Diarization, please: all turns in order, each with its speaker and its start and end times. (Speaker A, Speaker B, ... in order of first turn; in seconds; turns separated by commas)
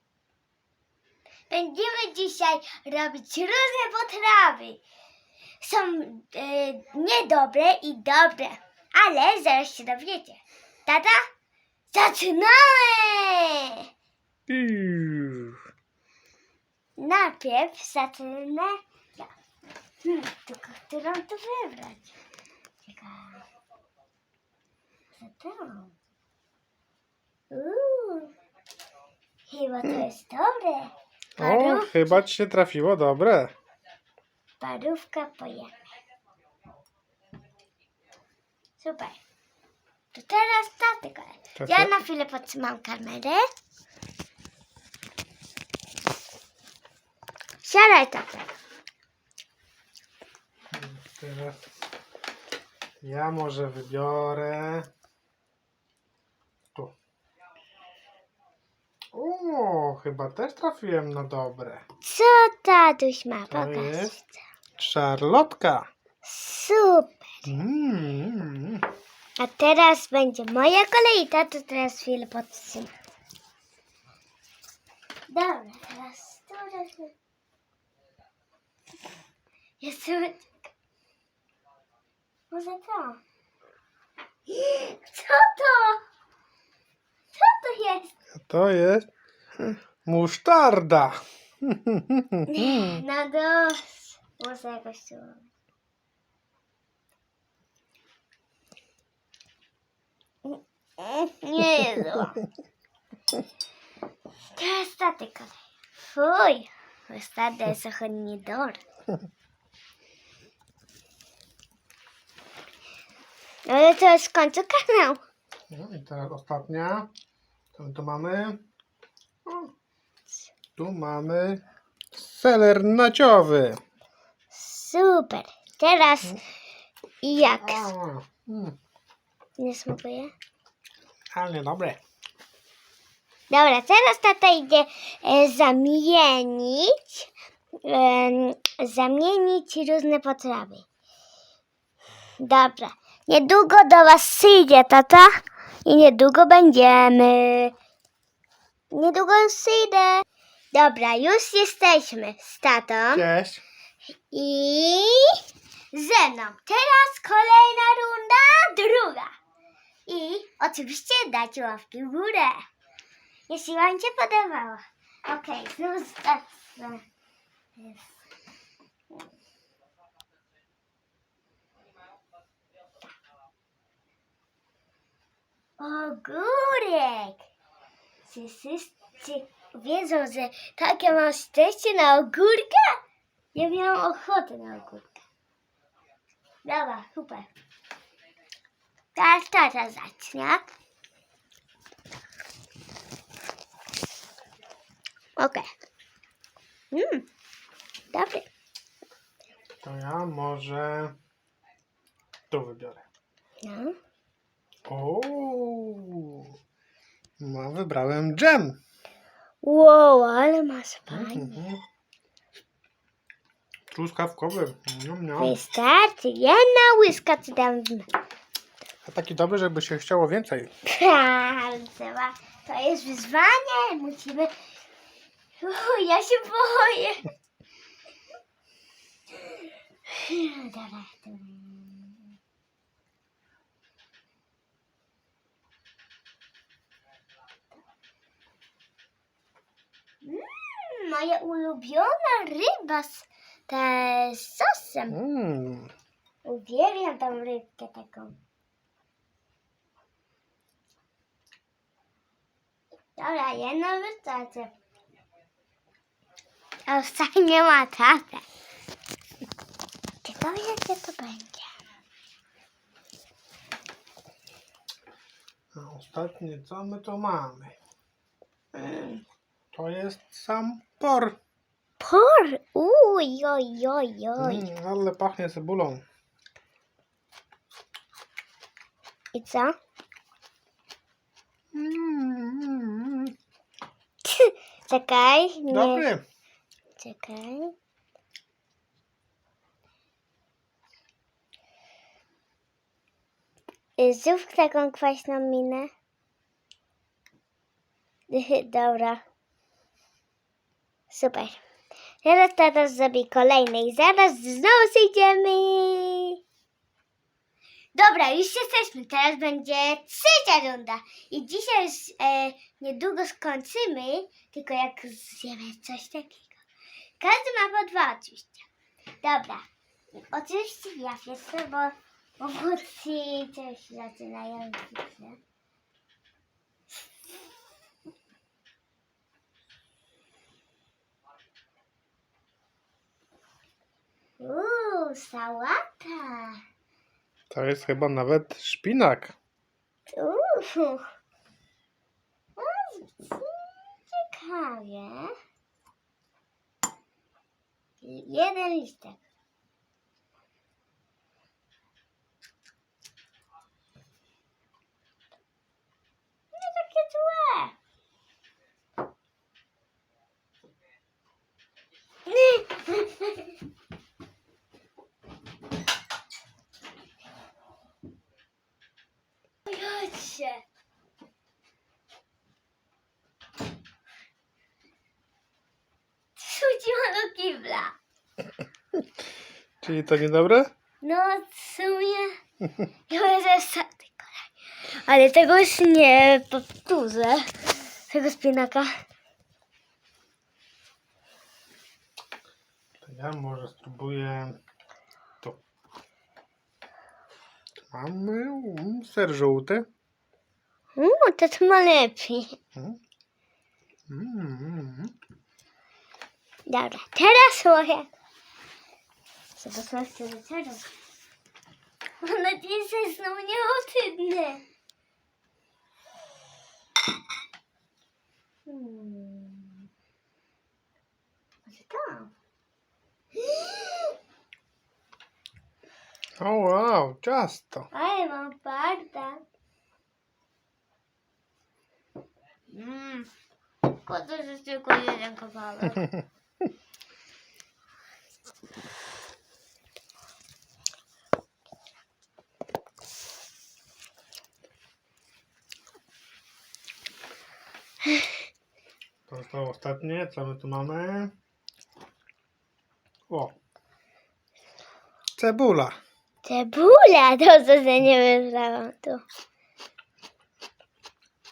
Speaker A: 1.5-4.8, Speaker A: 5.6-11.3, Speaker A: 11.9-13.8, Speaker B: 14.5-15.6, Speaker A: 17.0-19.3, Speaker A: 20.0-22.1, Speaker A: 22.9-23.4, Speaker A: 25.1-25.9, Speaker A: 27.5-28.3, Speaker A: 29.5-32.2, Speaker B: 31.4-33.5, Speaker A: 34.6-35.7, Speaker A: 38.8-39.2, Speaker A: 40.1-43.5, Speaker B: 41.6-41.9, Speaker A: 47.6-48.5, Speaker B: 50.7-51.6, Speaker B: 53.0-54.9, Speaker B: 59.1-61.8, Speaker A: 62.0-64.4, Speaker B: 63.5-64.2, Speaker B: 64.8-65.9, Speaker A: 66.2-67.5, Speaker B: 67.5-68.8, Speaker A: 69.4-72.9, Speaker A: 75.3-77.1, Speaker A: 79.8-80.5, Speaker A: 82.5-83.2, Speaker A: 84.5-86.0, Speaker A: 87.3-88.1, Speaker B: 88.3-93.0, Speaker A: 92.5-95.5, Speaker A: 100.4-102.4, Speaker A: 104.5-108.8, Speaker A: 113.7-115.2, Speaker B: 115.7-117.1, Speaker B: 117.7-118.6, Speaker B: 119.4-119.7, Speaker B: 120.8-123.8, Speaker A: 124.5-126.4, Speaker A: 127.2-127.9, Speaker B: 127.6-128.8, Speaker A: 129.6-130.3, Speaker B: 131.3-132.0, Speaker A: 133.5-137.3, Speaker A: 137.8-140.8, Speaker A: 142.4-147.7, Speaker A: 148.9-153.2, Speaker B: 153.1-153.6, Speaker A: 154.3-155.4, Speaker A: 155.9-159.3, Speaker A: 160.1-162.6, Speaker A: 163.5-167.0, Speaker A: 167.8-168.2, Speaker A: 175.8-177.4, Speaker A: 178.2-183.0, Speaker A: 183.5-185.2, Speaker A: 186.6-187.5, Speaker A: 189.2-190.7, Speaker A: 195.4-195.7, Speaker A: 196.9-197.2, Speaker A: 198.1-198.5, Speaker B: 199.8-201.1, Speaker B: 202.5-203.0, Speaker A: 203.6-204.0, Speaker B: 204.8-206.5, Speaker B: 207.4-208.8, Speaker A: 209.6-211.6, Speaker B: 211.1-211.8, Speaker B: 213.9-215.6, Speaker A: 215.4-218.1, Speaker B: 219.0-220.7, Speaker A: 220.8-224.5, Speaker A: 225.6-227.3, Speaker A: 229.3-232.3, Speaker A: 240.2-245.2, Speaker B: 245.1-245.9, Speaker A: 246.4-248.4, Speaker A: 253.2-254.7, Speaker A: 256.9-258.4, Speaker A: 260.2-261.7, Speaker B: 265.7-267.8, Speaker A: 268.8-269.2, Speaker B: 269.7-271.4, Speaker A: 272.0-274.7, Speaker B: 274.4-276.0, Speaker A: 279.3-279.8, Speaker B: 281.7-283.3, Speaker A: 284.2-286.1, Speaker B: 285.7-286.2, Speaker A: 287.0-287.7, Speaker A: 294.0-295.9, Speaker A: 298.3-299.2, Speaker A: 301.1-301.6, Speaker A: 302.2-306.4, Speaker A: 307.9-316.6, Speaker A: 317.2-318.7, Speaker A: 319.2-325.4, Speaker A: 334.4-336.6, Speaker B: 337.5-339.3, Speaker A: 340.1-341.1, Speaker A: 342.6-345.3, Speaker A: 348.0-349.2, Speaker A: 356.5-357.7, Speaker A: 362.2-363.5, Speaker A: 369.6-370.6, Speaker A: 376.4-377.9, Speaker B: 379.8-380.7, Speaker A: 381.0-382.4, Speaker A: 383.1-388.9, Speaker B: 393.0-394.6, Speaker B: 397.8-399.9, Speaker A: 400.9-402.6, Speaker B: 404.1-405.1, Speaker A: 406.7-408.1, Speaker A: 409.6-410.9, Speaker A: 412.2-414.6, Speaker A: 418.6-419.8, Speaker A: 421.6-422.3, Speaker A: 423.3-424.1, Speaker B: 426.4-427.9, Speaker A: 427.9-429.4, Speaker A: 432.7-433.3, Speaker A: 433.9-436.2, Speaker B: 449.3-451.3, Speaker B: 453.3-453.5, Speaker B: 455.4-456.0, Speaker A: 456.4-459.2